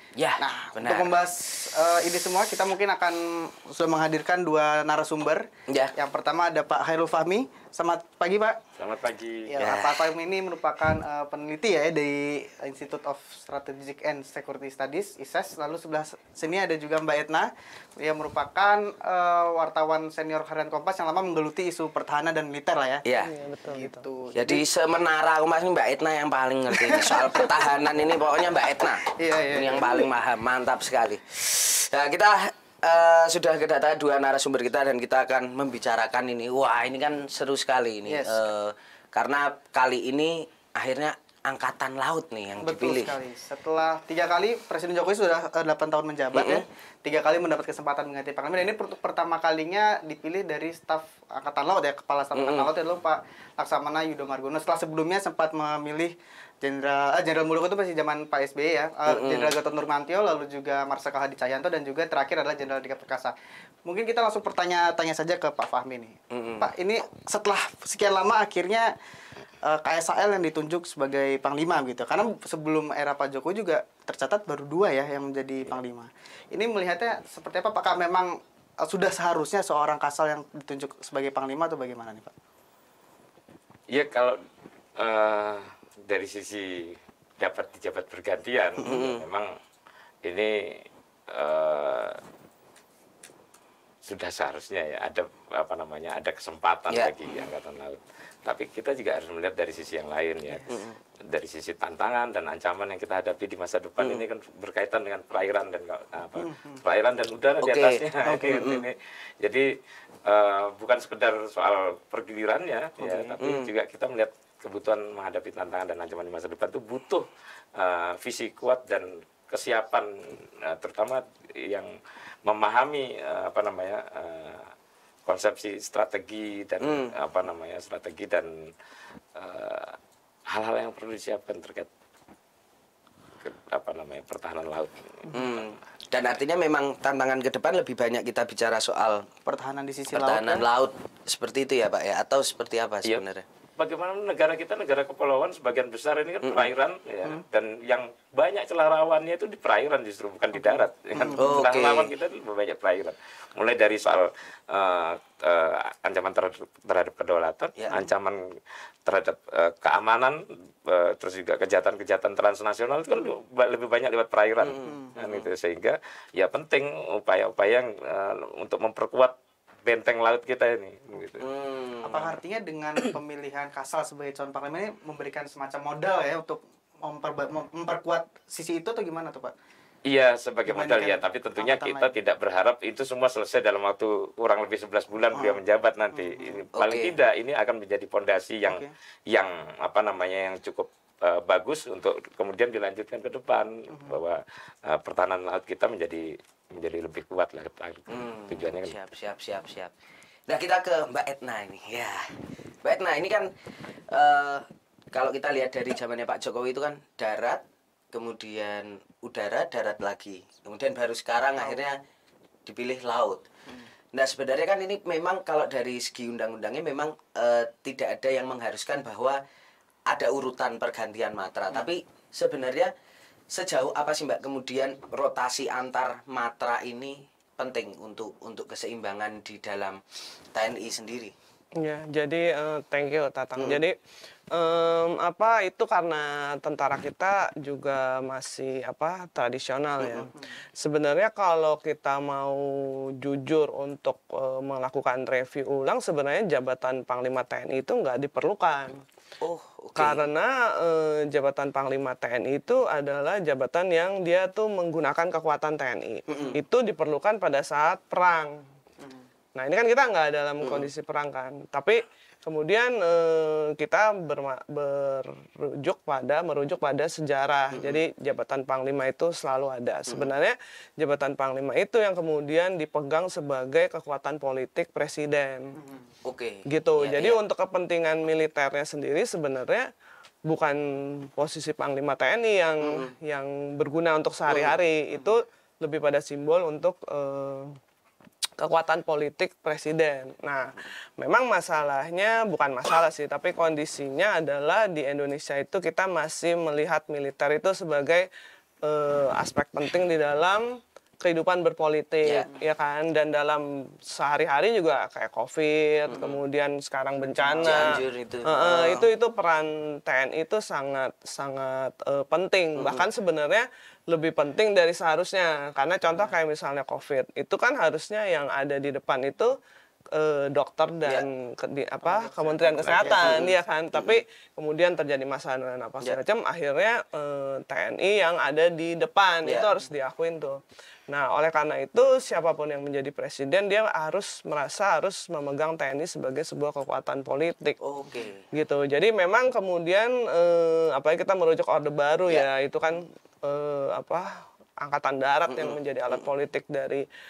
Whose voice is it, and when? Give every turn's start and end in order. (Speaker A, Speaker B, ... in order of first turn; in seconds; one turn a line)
Speaker A: 0.1-1.1
Speaker B: 0.4-8.6
Speaker C: 8.8-9.6
Speaker B: 9.5-23.0
Speaker A: 9.6-10.1
Speaker A: 23.0-23.3
Speaker D: 23.2-24.0
Speaker B: 23.6-24.6
Speaker A: 24.3-43.1
Speaker B: 26.7-27.5
Speaker B: 28.8-30.1
Speaker B: 38.1-38.5
Speaker B: 42.6-63.3
Speaker A: 46.3-46.6
Speaker A: 52.4-52.7
Speaker A: 59.1-59.5
Speaker B: 63.8-68.9
Speaker A: 66.3-66.7
Speaker B: 69.6-82.3
Speaker C: 83.9-84.4
Speaker C: 85.0-89.5
Speaker A: 88.8-89.2
Speaker C: 90.2-92.2
Speaker C: 94.0-109.7
Speaker A: 100.7-101.0
Speaker A: 104.0-104.2
Speaker B: 106.4-106.8
Speaker A: 107.6-108.8
Speaker B: 108.2-108.8
Speaker C: 110.2-121.9
Speaker B: 113.0-113.4
Speaker A: 113.4-113.7
Speaker C: 122.4-124.7
Speaker C: 125.2-128.5
Speaker A: 126.8-127.1
Speaker C: 129.3-130.0
Speaker C: 130.5-131.9
Speaker C: 133.4-135.7
Speaker A: 135.3-139.3
Speaker B: 139.4-140.6
Speaker A: 140.1-143.4
Speaker C: 143.8-158.5
Speaker A: 146.4-146.7
Speaker B: 151.1-151.6
Speaker A: 151.4-152.1
Speaker A: 157.8-158.0
Speaker C: 159.0-171.4
Speaker A: 164.6-165.5
Speaker A: 171.4-172.3
Speaker B: 172.0-179.5
Speaker C: 180.1-198.9
Speaker B: 180.7-182.1
Speaker B: 185.3-185.6
Speaker B: 186.1-186.6
Speaker A: 186.8-187.2
Speaker B: 188.7-188.9
Speaker B: 193.9-194.2
Speaker A: 198.1-199.9
Speaker A: 200.5-203.5
Speaker A: 204.1-212.0
Speaker A: 212.7-213.4
Speaker A: 214.1-219.4
Speaker A: 220.1-222.9
Speaker A: 223.5-230.0
Speaker A: 230.5-231.3
Speaker D: 231.8-233.9
Speaker D: 234.5-249.0
Speaker A: 240.0-240.3
Speaker A: 249.4-250.2
Speaker D: 249.9-258.6
Speaker A: 256.3-256.6
Speaker D: 259.6-275.8
Speaker A: 260.6-260.9
Speaker A: 267.7-268.0
Speaker A: 270.1-270.3
Speaker B: 275.8-276.0
Speaker A: 276.2-277.4
Speaker D: 276.7-279.9
Speaker D: 280.4-287.8
Speaker A: 282.8-283.1
Speaker A: 284.5-284.7
Speaker D: 288.6-298.2
Speaker D: 298.8-300.7
Speaker D: 301.2-319.6
Speaker A: 306.1-306.4
Speaker B: 307.4-308.0
Speaker A: 307.6-309.1
Speaker A: 312.8-313.0
Speaker D: 320.1-337.8
Speaker B: 322.2-323.4
Speaker C: 322.8-323.1
Speaker A: 323.1-324.2
Speaker A: 337.8-338.4
Speaker D: 338.5-344.3
Speaker D: 344.8-347.0
Speaker A: 345.5-346.2